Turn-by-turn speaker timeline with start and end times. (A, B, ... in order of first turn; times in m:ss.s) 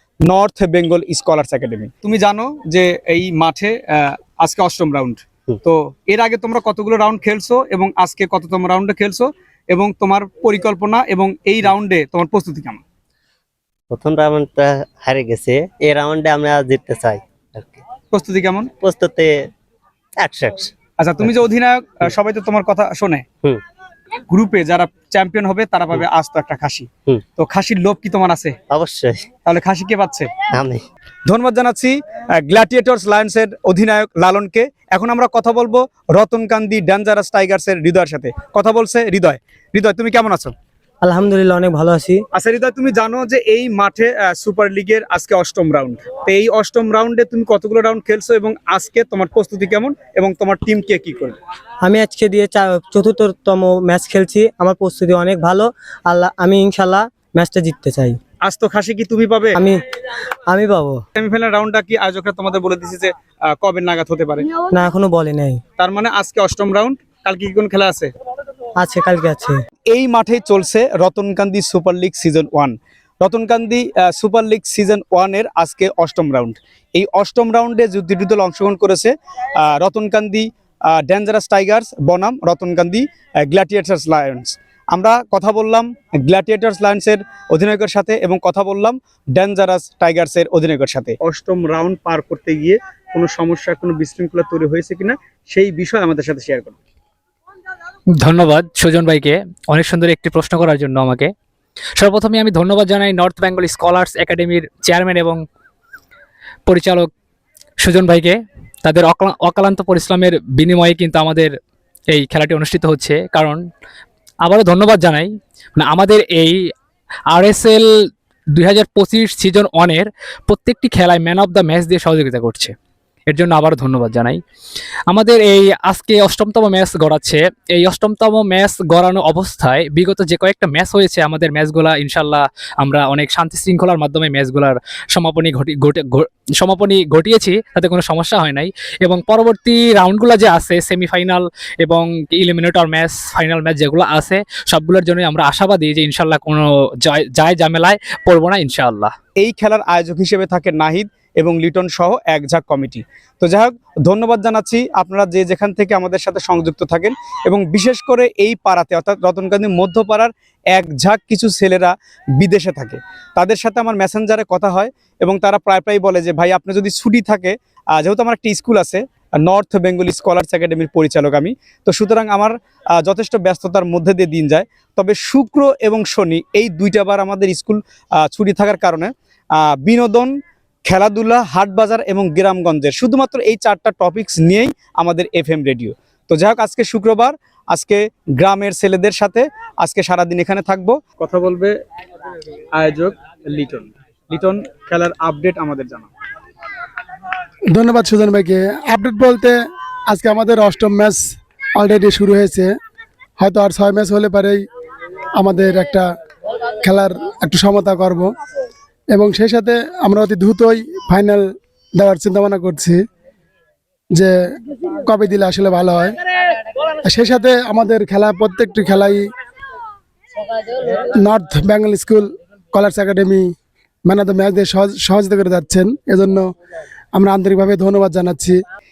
0:00.3-0:12.8 A
0:13.9-0:17.8 B
0:18.1-0:18.7 A
0:18.8-0:19.5 B
0:20.2-0:21.4 B
0:21.0-0:23.3 A
0:24.3-0:28.6 A
0:28.7-0:29.3 B
0:29.4-0:30.4 A
0:30.5-0:30.8 B
0:31.3-0:40.5 A
0:41.0-0:42.2 C
0:42.3-0:51.4 A
0:51.8-0:58.2 C
0:58.4-0:59.6 A
0:59.6-0:59.8 C
1:00.5-1:01.0 C
1:01.2-1:04.5 A
1:04.6-1:05.6 C
1:05.8-1:08.1 A
1:08.8-1:09.6 C
1:09.9-1:36.8 A
1:38.2-1:41.3 D
1:42.0-1:45.4 D
1:46.7-1:47.1 D
1:47.8-1:51.5 D
1:52.1-1:53.6 D
1:54.4-1:56.6 D
1:57.3-1:57.8 D
1:58.6-2:02.7 D
2:03.3-2:04.4 D
2:05.1-2:29.1 D
2:29.4-3:00.4 A
3:00.9-3:11.8 A
3:12.8-3:16.1 A
3:17.7-3:19.6 E
3:20.1-3:21.2 E
3:21.8-3:22.7 E
3:23.4-3:24.6 E
3:25.4-3:26.0 E
3:26.8-3:28.3 E
3:29.1-3:33.0 E
3:34.9-3:36.1 E
3:37.0-3:39.2 E
3:40.7-3:43.5 E
3:44.1-3:46.5 E
3:47.2-3:48.6 E